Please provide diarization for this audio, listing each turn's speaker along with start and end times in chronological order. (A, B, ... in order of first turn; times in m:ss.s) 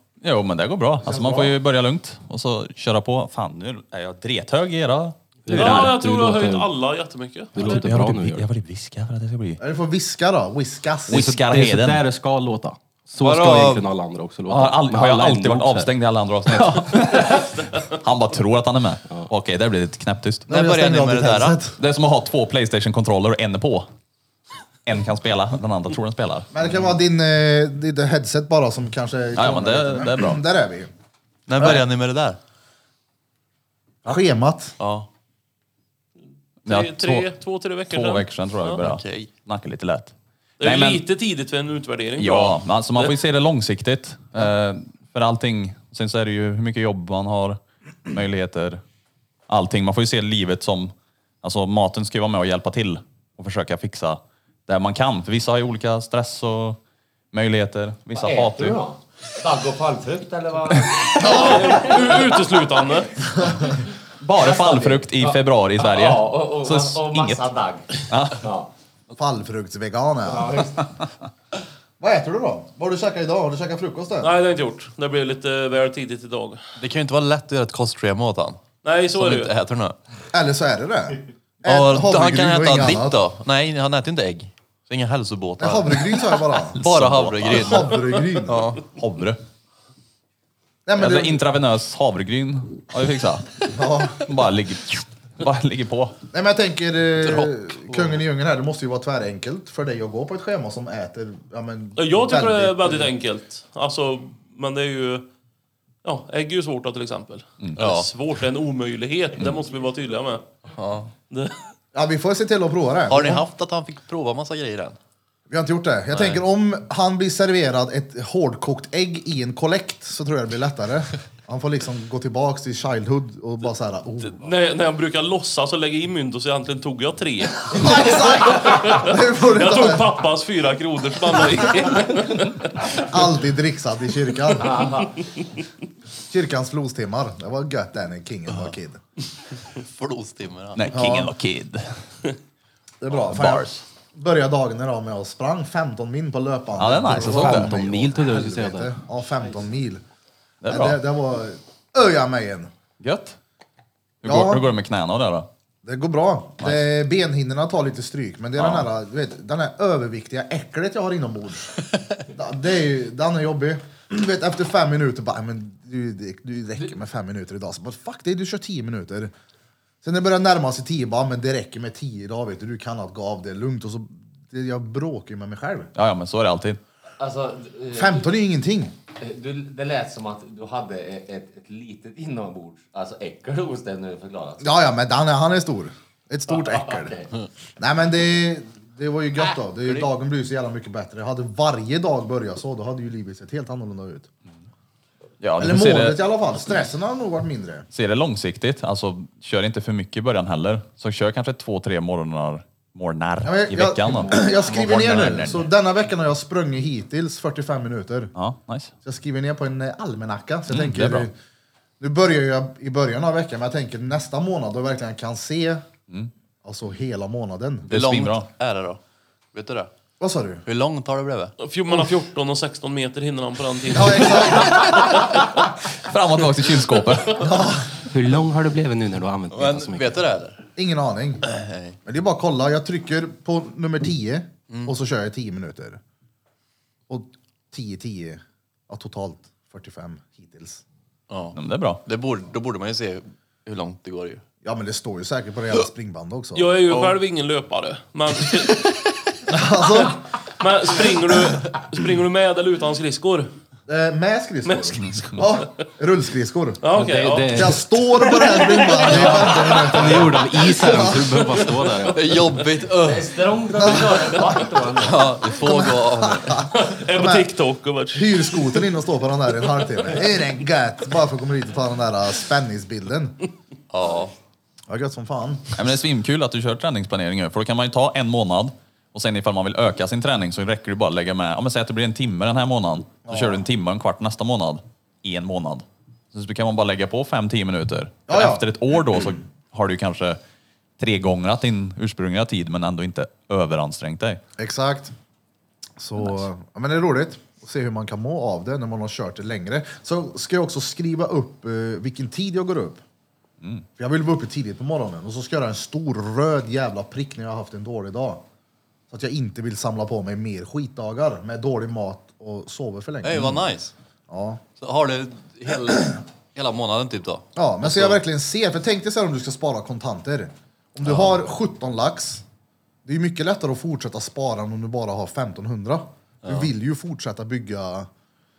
0:00.2-0:06.0 A
0:01.0-0:01.6 B
0:05.4-0:06.7 C
0:05.5-0:07.8 D
0:07.5-0:08.5 C
0:07.6-0:09.6 A
0:09.6-0:11.3 B
0:11.1-0:12.0 A
0:11.1-0:15.9 C
0:13.2-0:13.8 E
0:14.5-0:20.5 A
0:20.5-0:21.6 E
0:20.5-0:21.8 B
0:21.8-0:23.9 A
0:24.8-0:26.5 A
0:26.5-0:30.9 B
0:29.4-0:30.4 A
0:31.5-0:32.4 E
0:31.6-0:31.8 B
0:34.0-0:34.8 B
0:34.8-0:35.1 E
0:36.6-0:37.3 A
0:36.6-0:38.8 D
0:37.9-0:41.0 A
0:38.7-0:39.3 E
0:40.6-0:43.1 D
0:42.2-0:48.8 A
0:49.5-0:56.8 A
0:57.3-0:58.8 A
0:58.1-1:01.9 F
1:01.2-1:03.1 D
1:01.2-1:01.7 B
1:03.4-1:03.8 F
1:04.2-1:07.4 A
1:04.3-1:08.7 F
1:08.1-1:08.4 A
1:09.1-1:10.7 B
1:10.2-1:10.9 F
1:12.0-1:14.3 B
1:14.2-1:16.6 D
1:16.8-1:18.6 E
1:18.8-1:19.5 D
1:19.1-1:20.0 E
1:20.3-1:23.2 B
1:21.6-1:28.9 E
1:25.6-1:26.8 B
1:26.8-1:27.6 A
1:27.4-1:28.8 B
1:28.9-1:29.4 A
1:30.8-1:31.4 B
1:31.0-1:36.1 A
1:33.7-1:34.3 B
1:36.3-1:43.1 B
1:37.2-1:38.2 E
1:42.0-1:45.2 D
1:46.0-1:50.4 D
1:47.8-1:48.1 E
1:50.7-1:51.1 E
1:51.3-1:51.6 D
1:51.9-1:53.4 B
1:53.1-1:55.0 E
1:55.5-2:04.5 B
1:56.1-1:56.4 E
2:04.4-2:12.6 D
2:07.7-2:10.2 B
2:12.9-2:14.9 B
2:14.6-2:15.2 F
2:16.3-2:19.0 B
2:19.7-2:21.0 E
2:20.8-2:22.0 A
2:20.9-2:21.3 B
2:23.0-2:30.0 B
2:23.3-2:23.8 A
2:26.8-2:27.7 A
2:27.2-2:28.9 C
2:30.6-2:31.0 A
2:30.6-2:32.7 B
2:33.0-2:33.4 A
2:34.2-2:35.5 A
2:34.2-2:34.6 B
2:35.8-2:41.8 B
2:38.6-2:38.8 A
2:42.3-2:49.3 B
2:50.0-2:55.9 B
2:55.9-2:56.8 A
2:57.2-2:58.3 F
2:57.9-2:58.9 B
2:59.2-3:04.7 F
3:04.6-3:07.1 B
3:06.5-3:07.3 F
3:07.8-3:14.3 B
3:09.4-3:10.1 F
3:15.4-3:16.2 A
3:15.6-3:17.9 B
3:17.9-3:25.7 A
3:23.4-3:28.3 B
3:24.1-3:24.7 F
3:28.3-3:28.9 A
3:29.0-3:31.3 B
3:30.7-3:31.3 A
3:32.0-3:35.9 B
3:36.6-3:37.9 B
3:37.9-3:38.5 A
3:37.9-3:39.0 E
3:39.5-3:39.9 E
3:40.2-3:40.6 B
3:40.6-3:41.5 E
3:41.6-3:45.2 D
3:43.9-3:45.1 B
3:46.0-3:47.5 A
3:47.3-3:48.0 B
3:48.1-3:50.2 C
3:49.5-3:50.6 E
3:50.8-3:51.4 B
3:51.4-3:52.0 E
3:52.0-3:56.0 B
3:57.1-4:00.8 B
4:01.3-4:04.4 E
4:01.5-4:02.0 A
4:04.6-4:06.8 B
4:06.5-4:09.0 D
4:09.5-4:10.2 B
4:10.6-4:13.5 D
4:13.9-4:16.9 B
4:14.6-4:15.4 D
4:16.8-4:20.1 D
4:16.9-4:17.8 C
4:17.5-4:21.4 B
4:19.2-4:22.3 C
4:22.1-4:23.4 E
4:23.0-4:25.3 F
4:23.8-4:24.2 B
4:25.0-4:26.7 E
4:25.6-4:27.5 B
4:26.7-4:28.8 D
4:28.1-4:33.4 B
4:33.9-4:34.3 E
4:34.9-4:35.9 B
4:35.7-4:50.4 A
4:43.3-4:43.6 B
4:48.3-4:48.6 B
4:51.0-4:54.4 A
4:54.6-4:55.1 B
4:56.0-5:03.0 B
5:03.6-5:03.8 A
5:04.0-5:08.4 B
5:09.1-5:13.7 B
5:13.2-5:13.9 E
5:14.3-5:14.6 B
5:14.8-5:18.2 E
5:17.6-5:22.4 B
5:21.0-5:21.4 E
5:23.0-5:28.1 B